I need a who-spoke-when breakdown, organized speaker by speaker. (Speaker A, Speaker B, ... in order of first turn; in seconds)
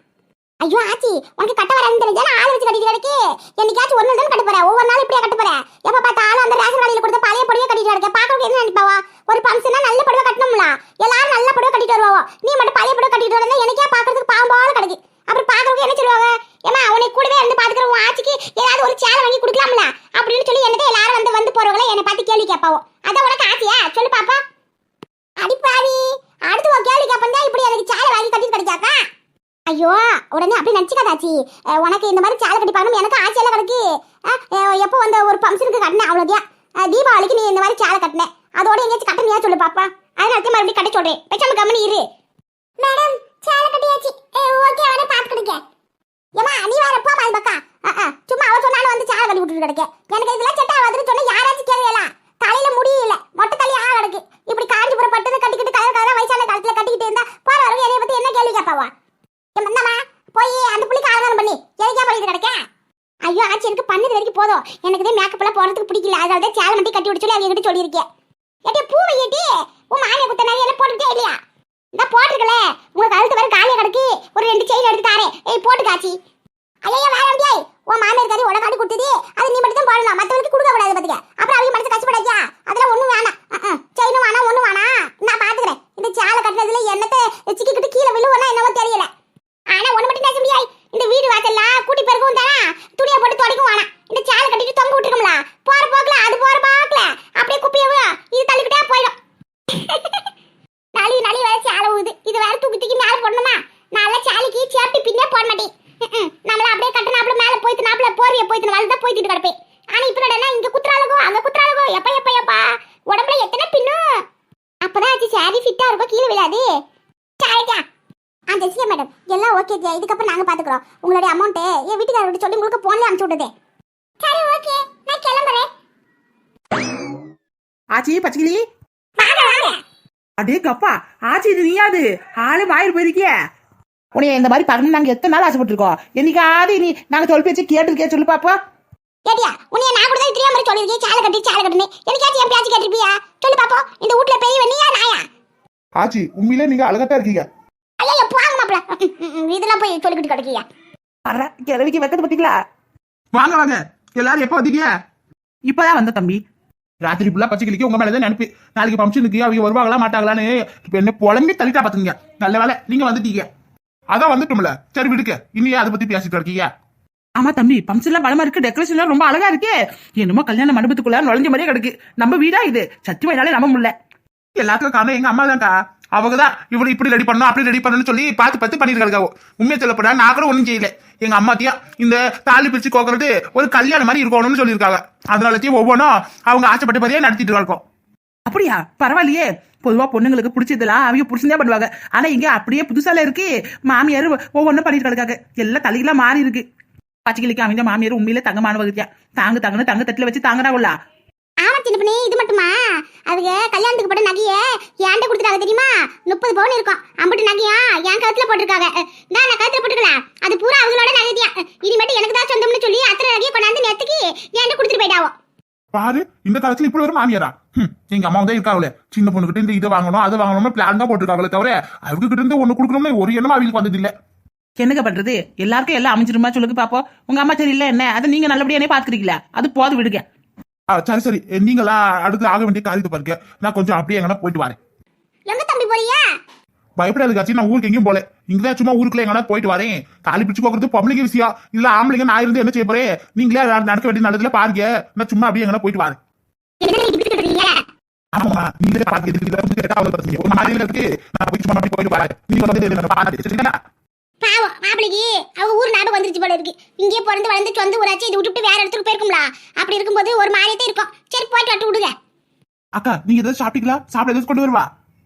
Speaker A: 0.6-24.4, 25.4-28.9, 29.7-42.0, 42.8-45.6, 46.4-58.9, 59.5-62.6, 63.2-68.0, 68.7-71.4, 72.0-76.2, 76.8-89.1, 89.7-99.1, 99.7-100.2, 100.9-114.0, 114.8-116.6, 117.4-117.8, 118.5-123.5, 124.2-125.7, 129.2-129.8, 139.2-145.2, 148.0-150.7, 201.6-202.7, 203.2-215.3, 235.5-236.3, 246.8-247.8, 254.4-262.1
Speaker B: 127.9-128.6, 130.4-133.3, 134.1-138.6, 151.2-152.6, 155.7-156.4, 167.4-173.9, 188.4-196.6, 197.2-200.9, 224.8-230.2
Speaker C: 146.0-147.4, 153.3-154.9, 157.0-163.5, 164.1-166.7, 174.6-187.8, 215.9-224.1, 230.9-234.8, 237.0-246.2, 248.3-253.8, 262.9-264.9